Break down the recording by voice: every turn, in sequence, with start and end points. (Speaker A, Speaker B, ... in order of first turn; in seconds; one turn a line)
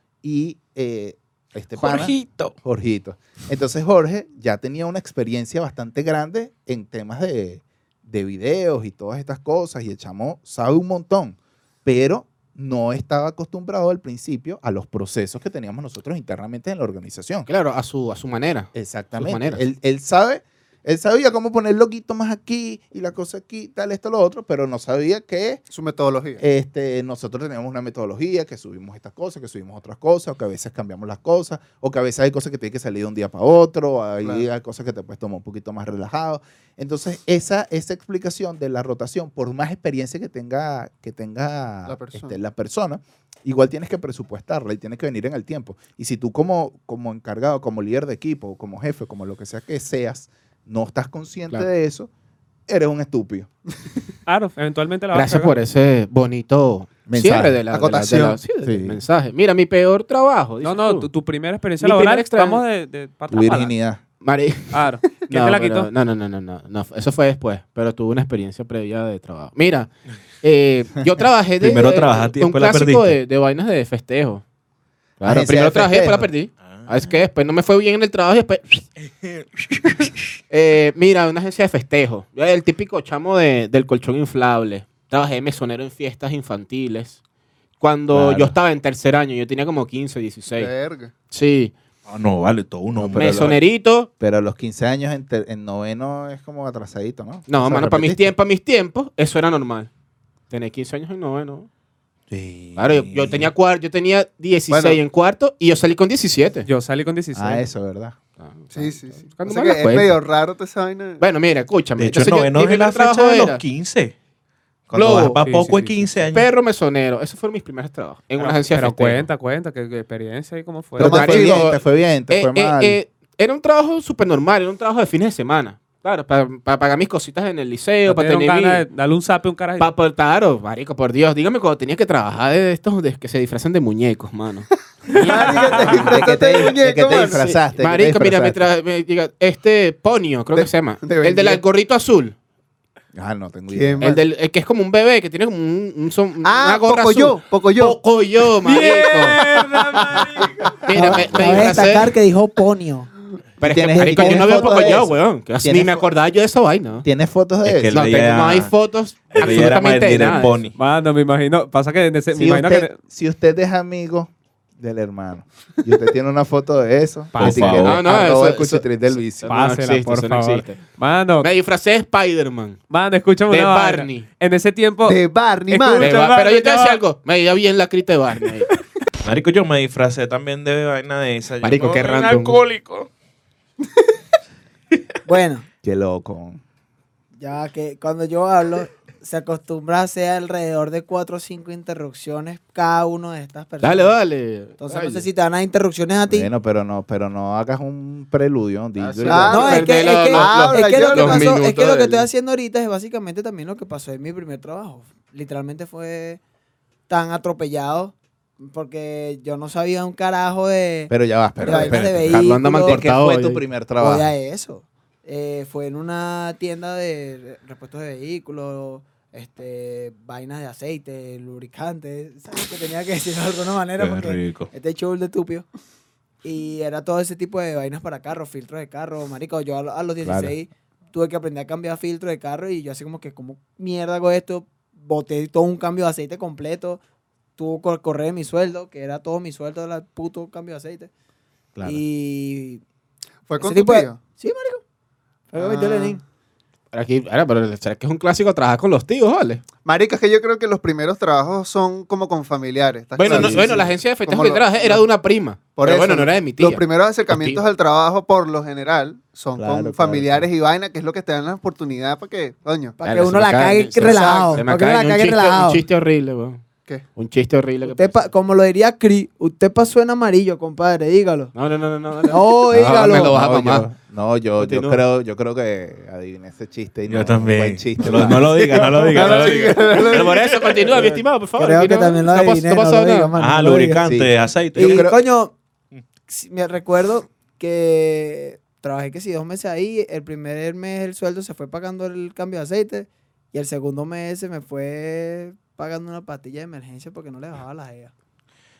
Speaker A: 0.2-17.5
Speaker B: 1.8-2.5
Speaker C: 17.5-19.7
Speaker A: 18.7-25.6
Speaker D: 25.7-26.4
Speaker A: 26.4-52.1
Speaker D: 41.9-42.4
Speaker A: 52.7-53.5
Speaker E: 54.3-55.5
Speaker C: 55.1-61.1
Speaker A: 57.1-59.0
Speaker E: 60.6-63.7
Speaker C: 61.8-62.6
Speaker A: 63.3-64.0
Speaker C: 64.2-74.4
Speaker E: 64.7-65.9
Speaker B: 71.6-73.1
Speaker C: 75.2-78.9
Speaker A: 75.2-76.3
Speaker B: 76.7-77.1
Speaker C: 80.5-87.2
Speaker C: 87.8-90.7
Speaker A: 88.1-88.5
Speaker D: 90.5-91.1
Speaker C: 91.3-91.7
Speaker B: 92.1-93.6
Speaker A: 93.0-93.5
Speaker C: 93.1-94.1
Speaker A: 94.2-98.3
Speaker C: 97.5-99.9
Speaker C: 100.5-101.7
Speaker B: 102.3-103.5
Speaker C: 102.8-106.7
Speaker D: 104.7-105.0
Speaker E: 106.7-107.7
Speaker A: 107.3-108.2
Speaker C: 108.4-110.1
Speaker D: 108.7-111.2
Speaker C: 111.2-113.6
Speaker B: 112.0-114.1
Speaker B: 114.9-116.5
Speaker C: 114.9-115.4
Speaker E: 115.4-116.0
Speaker C: 116.3-119.3
Speaker E: 118.4-121.1
Speaker A: 121.0-123.0
Speaker D: 121.0-121.8
Speaker C: 121.0-128.8
Speaker E: 128.1-129.9
Speaker C: 129.8-136.1
Speaker D: 135.1-137.4
Speaker E: 135.3-135.8
Speaker A: 135.9-138.6
Speaker C: 137.4-142.4
Speaker D: 140.6-141.6
Speaker A: 143.1-144.1
Speaker D: 143.7-144.2
Speaker C: 144.0-149.4
Speaker D: 146.4-148.0
Speaker E: 148.7-150.8
Speaker C: 150.8-152.1
Speaker F: 150.9-153.1
Speaker A: 151.2-151.7
Speaker C: 153.6-157.1
Speaker A: 153.6-156.1
Speaker D: 154.2-154.6
Speaker A: 157.0-158.0
Speaker B: 157.6-158.7
Speaker C: 157.9-160.7
Speaker B: 159.3-160.8
Speaker E: 160.8-162.9
Speaker A: 162.3-169.5
Speaker B: 167.3-168.0
Speaker E: 167.4-167.6
Speaker C: 167.4-170.8
Speaker E: 169.5-171.5
Speaker C: 171.4-172.8
Speaker E: 172.9-177.0
Speaker C: 173.5-174.3
Speaker D: 175.1-176.2
Speaker C: 176.0-178.7
Speaker B: 179.2-183.1
Speaker C: 181.6-182.6
Speaker F: 185.2-185.7
Speaker A: 185.8-186.6
Speaker F: 187.4-194.2
Speaker C: 193.8-195.2
Speaker F: 194.8-196.5
Speaker A: 196.3-199.8
Speaker C: 199.0-202.3
Speaker D: 199.3-201.5
Speaker F: 199.5-206.4
Speaker F: 207.1-213.0
Speaker A: 211.1-214.3
Speaker C: 211.7-213.6
Speaker F: 214.0-225.7
Speaker B: 224.0-224.7
Speaker F: 226.4-237.0
Speaker A: 230.2-230.5
Speaker F: 237.6-241.1
Speaker F: 241.8-242.8
Speaker D: 243.5-244.2
Speaker F: 243.6-244.8
Speaker F: 245.5-246.2
Speaker D: 245.6-246.2
Speaker C: 246.9-249.6
Speaker D: 249.8-255.1
Speaker C: 253.2-257.6
Speaker A: 253.2-253.9
Speaker D: 255.8-263.0
Speaker A: 259.6-260.5
Speaker F: 263.0-265.8
Speaker C: 263.0-266.6
Speaker D: 264.0-264.6
Speaker C: 267.1-268.2
Speaker F: 267.9-271.5
Speaker C: 271.5-273.9
Speaker F: 272.3-273.4
Speaker A: 272.7-278.8
Speaker C: 274.6-275.0
Speaker B: 277.1-280.9
Speaker C: 279.0-283.3
Speaker D: 279.1-280.3
Speaker F: 281.6-284.1
Speaker B: 283.4-285.1
Speaker A: 284.1-285.2
Speaker F: 284.7-285.6
Speaker F: 286.3-298.1